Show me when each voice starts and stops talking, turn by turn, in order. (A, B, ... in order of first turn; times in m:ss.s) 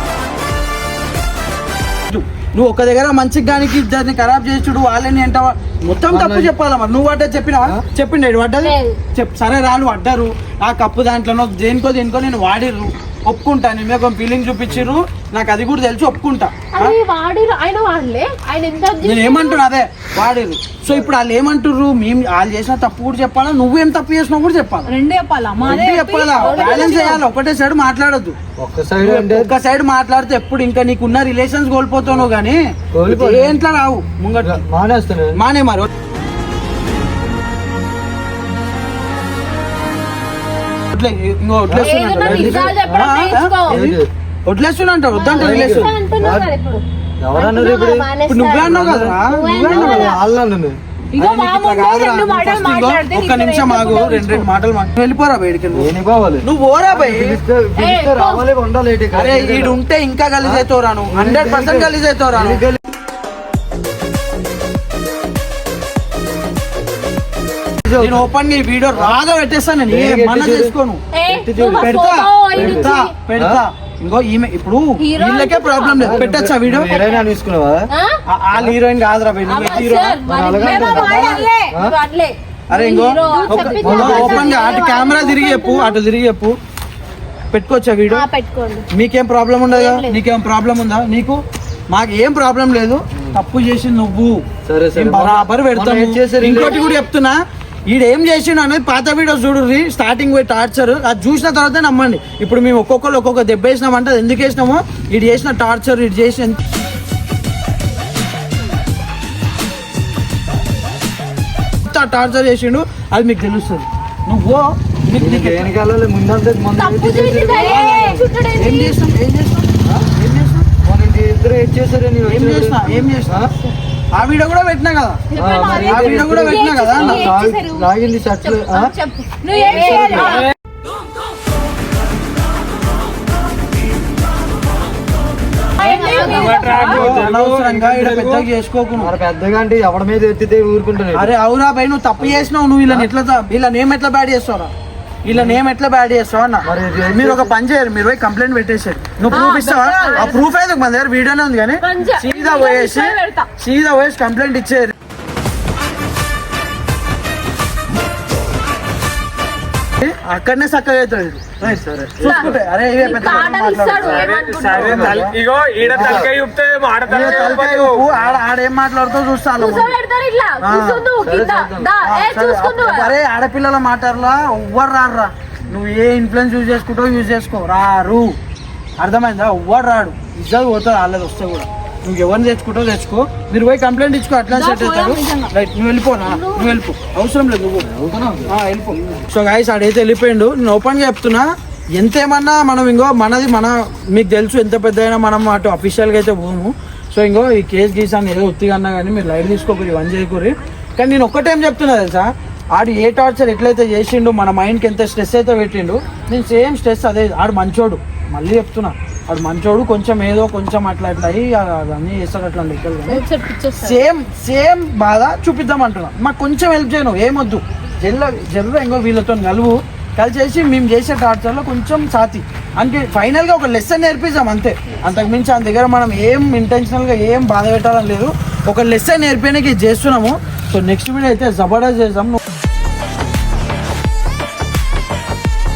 0:02.1-0:17.0 A
0:06.1-0:06.5 B
0:08.6-0:09.0 C
0:16.8-0:19.1 D
0:17.5-0:19.6 C
0:19.0-0:24.9 A
0:24.9-0:27.2 E
0:25.6-0:28.4 A
0:26.4-0:27.2 D
0:26.4-0:27.1 C
0:28.6-0:29.5 B
0:29.0-0:34.6 A
0:33.0-0:33.6 B
0:34.4-0:35.4 B
0:35.4-0:35.9 A
0:41.0-0:45.9 A
0:41.7-0:43.1 B
0:41.8-0:43.8 D
0:43.7-0:44.1 B
0:45.1-0:50.2 C
0:45.4-0:46.5 B
0:47.2-0:48.1 B
0:48.3-0:50.2 A
0:48.6-0:50.8 B
0:51.1-0:54.5 E
0:51.2-0:55.9 A
0:55.7-0:59.8 B
0:56.4-0:57.4 A
0:57.8-0:58.4 D
0:59.1-1:02.6 A
1:00.4-1:02.8 B
1:07.9-1:08.3 B
1:08.0-1:11.0 A
1:09.9-1:10.8 B
1:11.1-1:13.1 D
1:11.3-1:12.0 B
1:11.7-1:17.0 A
1:12.5-1:13.6 B
1:15.0-1:16.2 D
1:16.0-1:17.9 B
1:16.9-1:17.2 C
1:18.3-1:20.2 A
1:19.5-1:25.1 D
1:20.3-1:22.0 B
1:20.6-1:21.7 E
1:22.7-1:26.6 A
1:23.2-1:24.0 E
1:23.2-1:26.0 C
1:23.8-1:24.6 B
1:27.5-1:28.2 A
1:28.1-1:28.9 C
1:28.9-1:34.4 A
1:29.7-1:30.2 C
1:34.7-1:36.8 B
1:35.0-1:37.4 A
1:36.6-1:37.0 D
1:37.9-1:46.6 A
1:51.9-1:55.7 A
1:55.2-1:58.1 B
1:56.8-1:58.9 E
1:57.3-1:58.7 D
1:57.6-2:00.7 A
2:00.8-2:03.5 B
2:02.2-2:03.5 A
2:04.2-2:07.4 A
2:05.3-2:07.9 E
2:05.3-2:08.9 B
2:08.4-2:10.5 E
2:09.5-2:10.5 D
2:09.7-2:10.3 B
2:10.3-2:10.5 F
2:15.8-2:17.1 E
2:15.8-2:16.9 C
2:15.9-2:16.8 D
2:16.2-2:18.5 F
2:16.8-2:19.1 A
2:19.0-2:21.4 B
2:21.1-2:24.7 A
2:22.2-2:23.1 B
2:25.3-2:34.9 A
2:25.3-2:25.6 B
2:26.6-2:27.5 B
2:29.3-2:30.4 D
2:29.3-2:30.5 E
2:31.8-2:33.5 D
2:40.0-2:45.3 A
2:41.6-2:42.6 B
2:42.2-2:45.2 D
2:43.4-2:48.1 F
2:45.0-2:45.3 B
2:45.8-2:46.3 B
2:45.9-2:46.3 A
2:47.1-2:50.0 A
2:49.6-2:53.1 D
2:50.6-2:51.1 A
2:51.2-2:51.9 B
2:52.0-2:58.4 A
2:59.0-3:07.9 A
3:04.5-3:05.5 E
3:06.3-3:06.7 D
3:07.8-3:08.5 B
3:08.5-3:33.2 A
3:33.1-3:34.0 D
3:33.8-3:52.4 A